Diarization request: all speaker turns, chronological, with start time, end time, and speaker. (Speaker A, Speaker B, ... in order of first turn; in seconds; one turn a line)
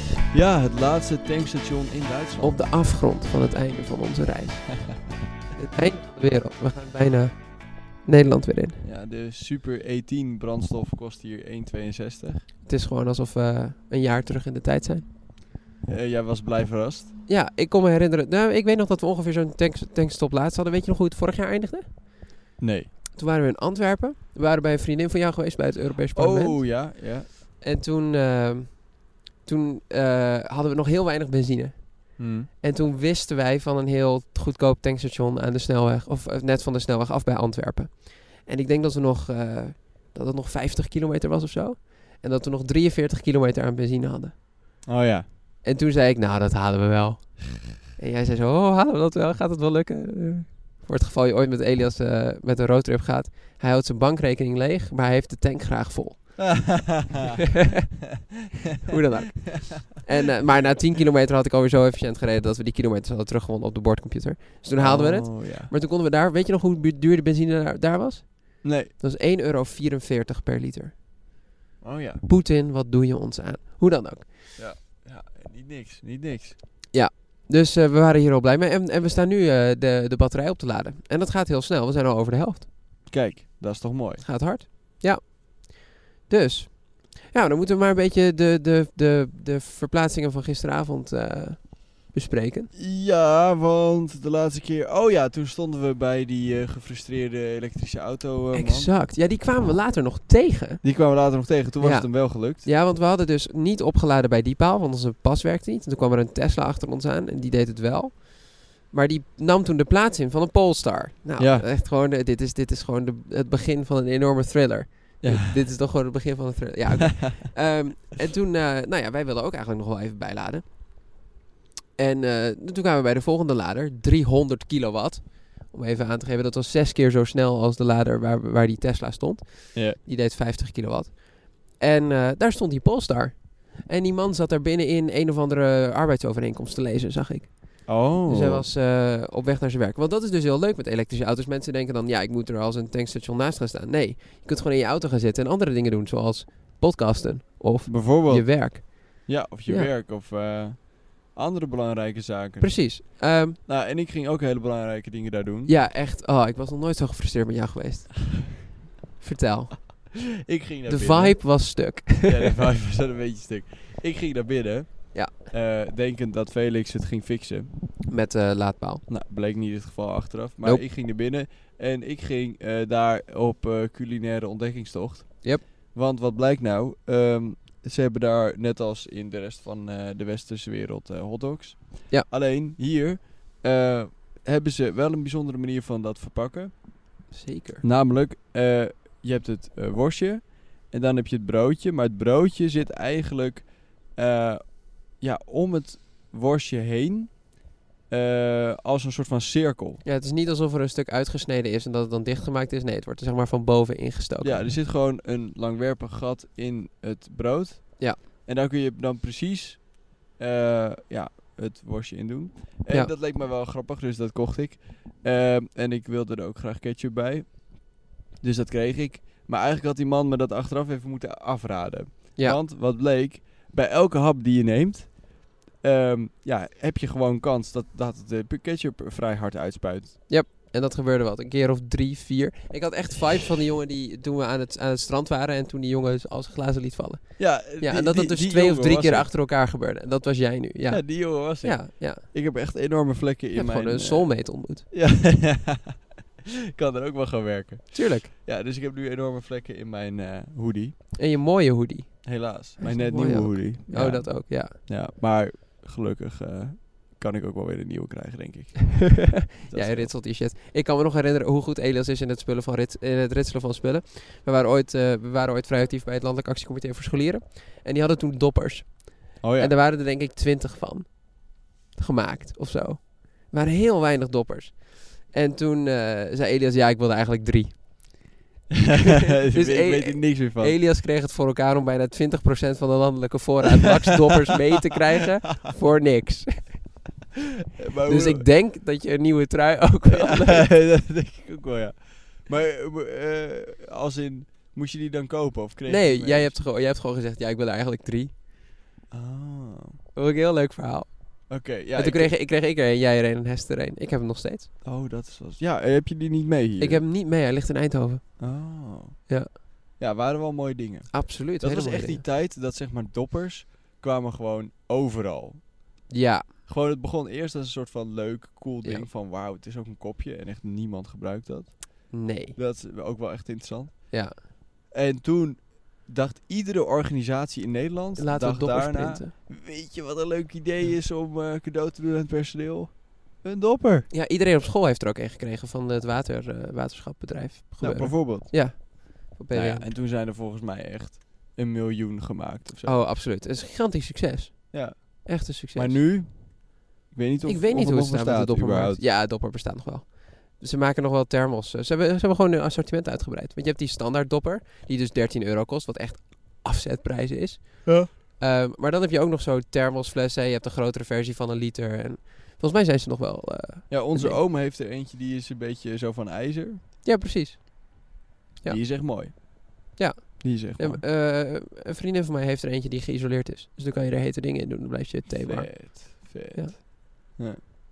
Speaker A: 0.3-2.6
Speaker B: 2.4-8.8
Speaker A: 8.8-12.5
Speaker B: 12.7-15.1
Speaker A: 15.8-17.1
Speaker B: 17.3-22.3
Speaker A: 22.6-22.9
Speaker B: 23.1-44.4
Speaker A: 26.1-27.3
Speaker A: 32.2-32.5
Speaker A: 44.8-45.3
Speaker B: 45.6-56.6
Speaker A: 56.4-57.3
Speaker B: 58.8-71.0
Speaker A: 64.7-65.7
Speaker A: 68.6-68.9
Speaker A: 71.8-72.2
Speaker B: 72.2-74.3
Speaker A: 74.5-76.6
Speaker B: 76.9-82.7
Speaker A: 83.1-84.5
Speaker B: 84.2-92.7
Speaker A: 92.7-99.0
Speaker B: 98.5-101.1
Speaker A: 100.8-102.7
Speaker B: 101.8-121.2
Speaker A: 111.4-111.7
Speaker A: 115.2-115.5
Speaker B: 122.0-149.9
Speaker A: 129.7-130.0
Speaker A: 137.8-138.7
Speaker A: 147.8-155.8
Speaker B: 152.6-153.6
Speaker B: 155.7-158.6
Speaker B: 159.2-160.3
Speaker A: 160.4-167.8
Speaker B: 160.9-162.5
Speaker B: 168.1-169.0
Speaker A: 169.1-187.0
Speaker B: 187.3-187.8
Speaker A: 187.8-200.0
Speaker B: 200.0-204.7
Speaker A: 204.4-230.2
Speaker B: 230.3-242.2
Speaker A: 237.4-239.3
Speaker A: 240.9-246.1
Speaker B: 243.5-244.9
Speaker A: 246.7-251.1
Speaker B: 247.9-248.3
Speaker B: 251.2-254.8
Speaker A: 252.2-260.1
Speaker B: 259.2-278.4
Speaker A: 269.4-269.8
Speaker A: 279.4-280.8
Speaker B: 279.5-287.1
Speaker A: 287.8-288.5
Speaker B: 288.1-290.7
Speaker A: 290.1-296.6
Speaker B: 295.9-298.3
Speaker A: 299.1-300.0
Speaker B: 300.1-304.7
Speaker A: 301.5-302.3
Speaker A: 304.8-307.1
Speaker B: 306.8-308.6
Speaker A: 308.4-309.4
Speaker A: 310.0-316.0
Speaker B: 311.1-312.2
Speaker B: 316.1-316.5
Speaker A: 316.6-324.3
Speaker B: 318.8-319.1
Speaker B: 322.1-322.6
Speaker B: 324.1-324.4
Speaker A: 324.9-334.1
Speaker B: 328.2-329.3
Speaker B: 334.1-339.9
Speaker A: 337.8-338.9
Speaker A: 339.5-343.0
Speaker B: 342.8-346.1
Speaker A: 344.7-349.1
Speaker B: 347.4-364.4
Speaker A: 363.9-366.8
Speaker B: 367.0-368.8
Speaker A: 368.6-371.0
Speaker B: 369.9-376.7
Speaker A: 375.3-377.6